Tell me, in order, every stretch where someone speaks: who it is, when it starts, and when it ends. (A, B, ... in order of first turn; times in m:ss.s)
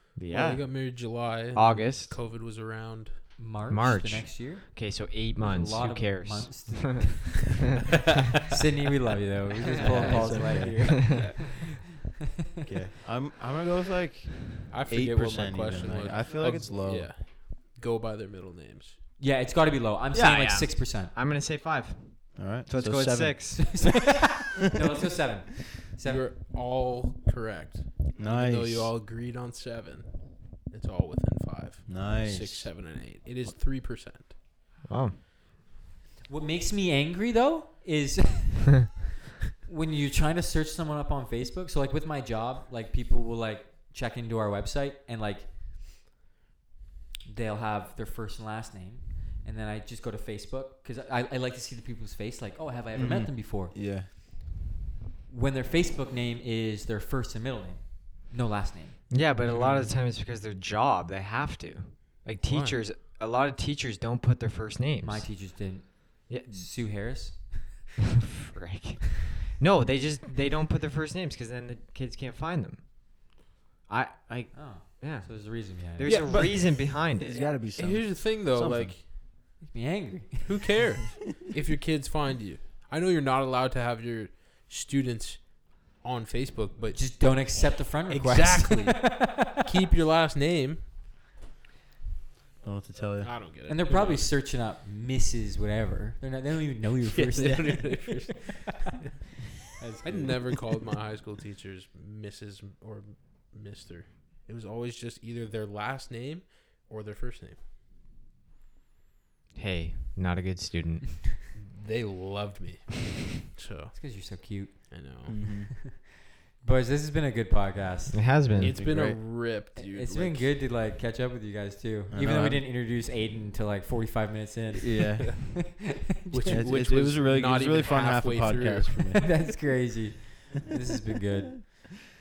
0:00.2-0:02.2 A
0:00.3-0:03.3 B
0:03.4-0:07.7 C
0:03.7-0:07.6 A
0:08.5-0:12.0 C
0:09.7-0:10.3 B
0:09.8-0:11.3 D
0:09.8-0:11.4 A
0:12.6-0:17.1 D
0:14.7-0:19.0 B
0:19.2-0:21.1 C
0:20.1-0:24.1 A
0:22.4-0:23.7 D
0:23.6-0:26.3 C
0:26.0-0:34.4 B
0:28.2-0:28.9 D
0:31.9-0:32.9 D
0:34.9-0:35.2 A
0:36.2-0:39.0 C
0:39.7-0:45.6 C
0:47.3-0:53.8 C
0:52.9-0:54.1 D
0:55.3-0:59.1 C
0:59.1-1:05.4 A
0:59.4-0:59.9 B
1:02.4-1:02.8 B
1:05.0-1:07.8 C
1:06.3-1:06.7 A
1:08.5-1:17.4 A
1:14.5-1:16.7 C
1:16.0-1:16.6 B
1:17.2-1:19.0 D
1:17.8-1:19.0 B
1:19.6-1:20.6 C
1:20.4-1:30.9 B
1:27.0-1:29.6 C
1:32.6-1:33.4 D
1:33.2-1:34.3 B
1:33.7-1:38.2 C
1:37.1-1:39.0 B
1:39.8-1:40.5 C
1:40.0-1:47.6 B
1:49.6-1:51.3 A
1:51.5-1:54.0 B
1:53.9-1:58.2 C
1:54.9-1:55.4 B
1:55.3-1:55.8 D
1:58.1-1:58.8 A
1:58.5-1:59.2 D
1:58.6-2:00.5 B
1:59.8-2:06.7 C
2:02.1-2:02.6 D
2:04.7-2:05.6 D
2:06.3-2:09.1 B
2:06.5-2:09.4 D
2:09.2-2:11.9 C